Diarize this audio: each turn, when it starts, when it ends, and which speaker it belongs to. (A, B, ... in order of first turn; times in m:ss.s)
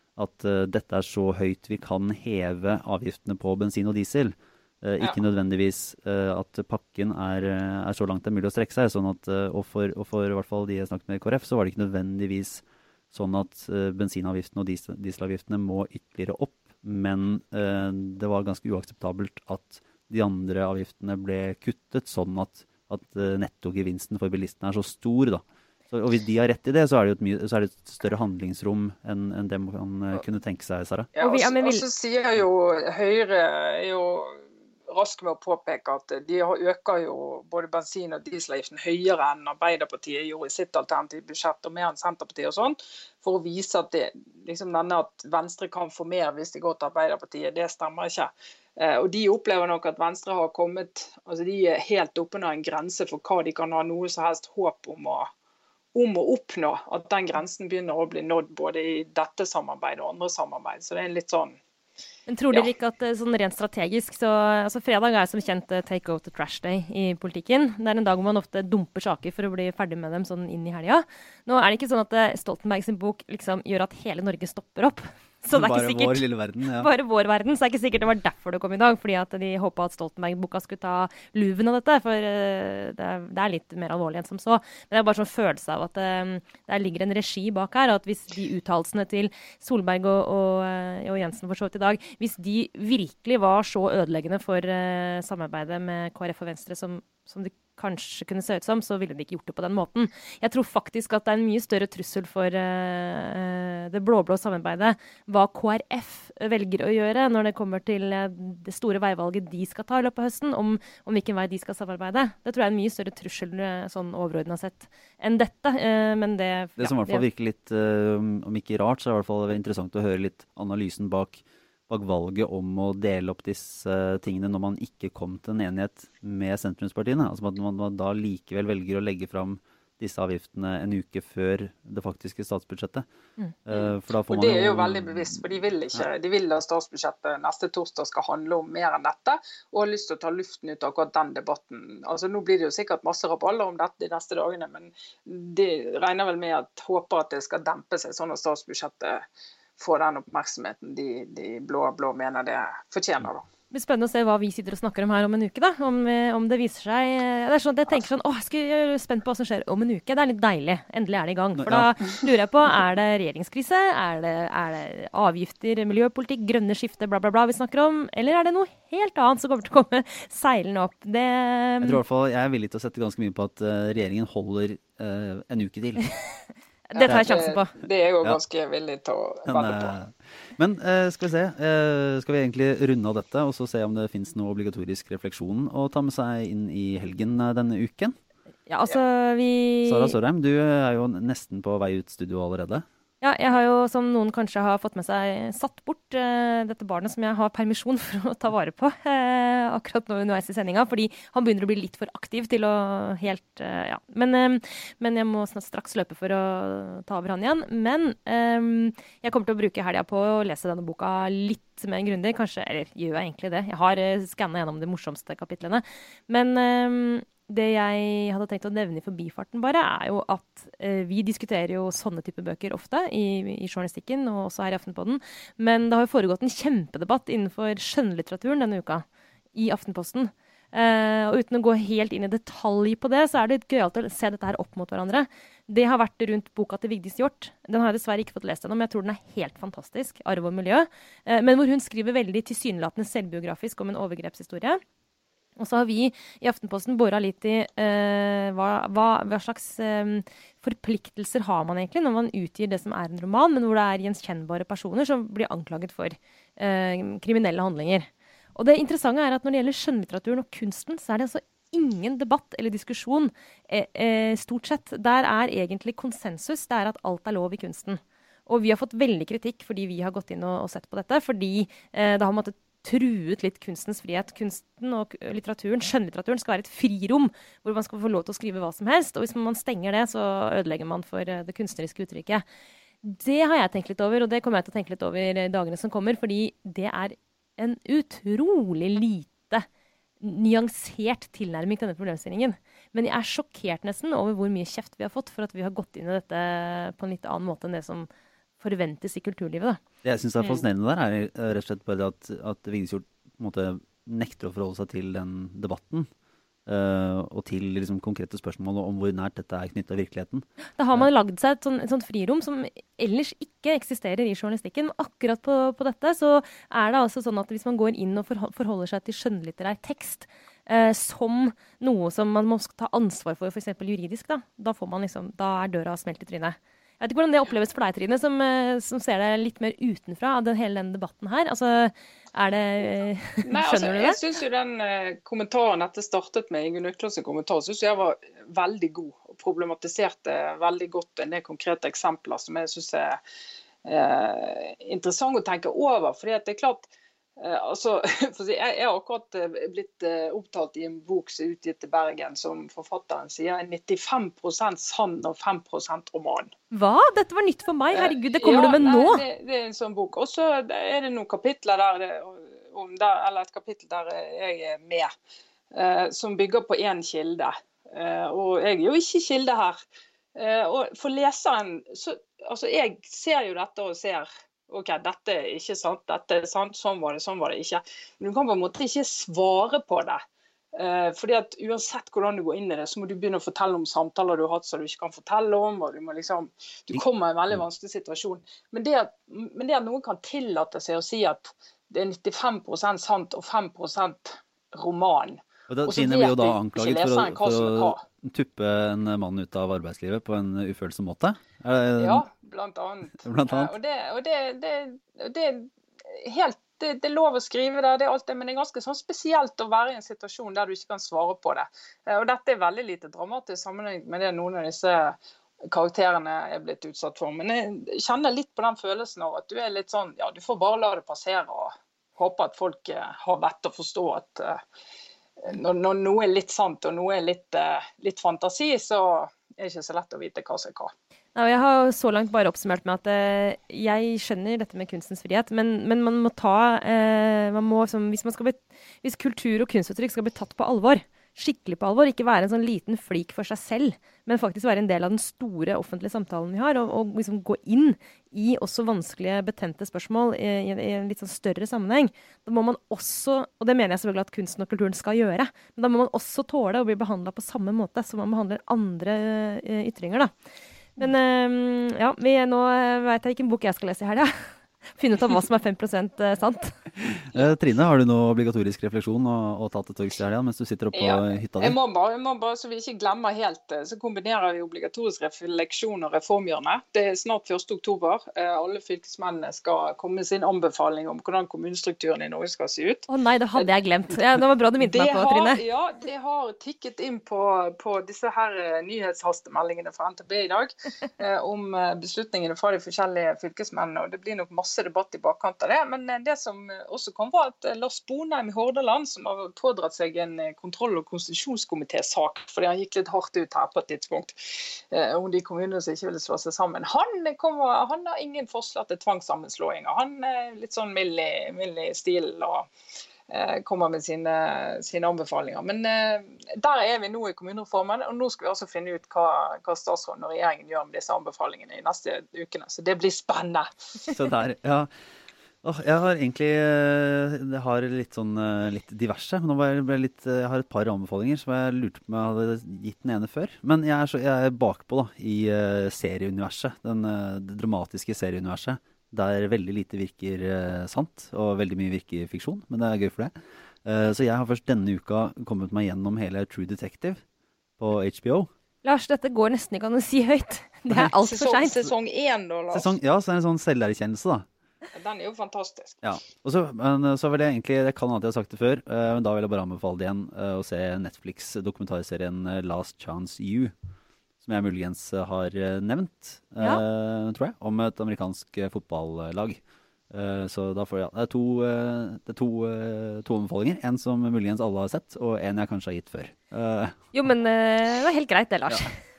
0:00.2-0:31.1 A
0:31.1-0:55.3 B
0:31.2-0:31.8 C
0:55.9-1:01.6 B
1:02.3-1:57.2 C
1:15.5-1:16.9 A
1:56.8-2:13.0 A
2:13.6-2:15.4 A
2:13.7-2:29.2 B
2:29.8-2:33.4 B
2:33.7-2:52.0 C
2:41.6-2:41.9 A
2:51.8-2:56.0 A
2:56.9-2:57.7 C
2:56.9-2:59.9 B
2:59.4-3:08.1 A
3:08.7-3:10.1 C
3:09.8-3:12.8 A
3:13.2-3:49.0 C
3:49.5-4:04.8 C
4:05.6-4:42.4 C
4:43.0-4:49.6 C
4:50.2-4:58.1 C
4:58.6-4:59.8 C
5:00.0-5:06.1 A
5:06.6-5:11.1 A
5:10.8-5:34.2 C
5:33.4-5:43.2 B
5:43.8-5:56.5 B
5:56.7-5:59.2 C
5:57.9-6:05.1 B
6:05.7-6:09.8 B
6:10.3-6:20.2 B
6:20.7-6:38.0 B
6:35.7-6:42.2 A
6:42.0-6:55.2 B
6:43.2-6:43.7 A
6:55.7-7:04.6 B
7:05.4-7:10.9 B
7:11.3-7:40.3 C
7:41.0-7:44.3 C
7:44.9-7:46.8 C
7:47.0-7:51.8 A
7:50.9-8:03.7 B
8:03.1-8:05.6 C
8:04.8-8:32.7 B
8:33.3-8:44.2 B
8:44.1-8:44.9 A
8:45.6-9:03.3 A
9:03.8-9:07.2 A
9:07.8-9:08.5 A
9:08.8-9:11.8 C
9:11.2-9:12.9 B
9:12.7-9:14.5 A
9:14.9-9:16.0 B
9:16.0-9:23.7 A
9:24.4-9:37.0 A
9:37.1-9:39.0 C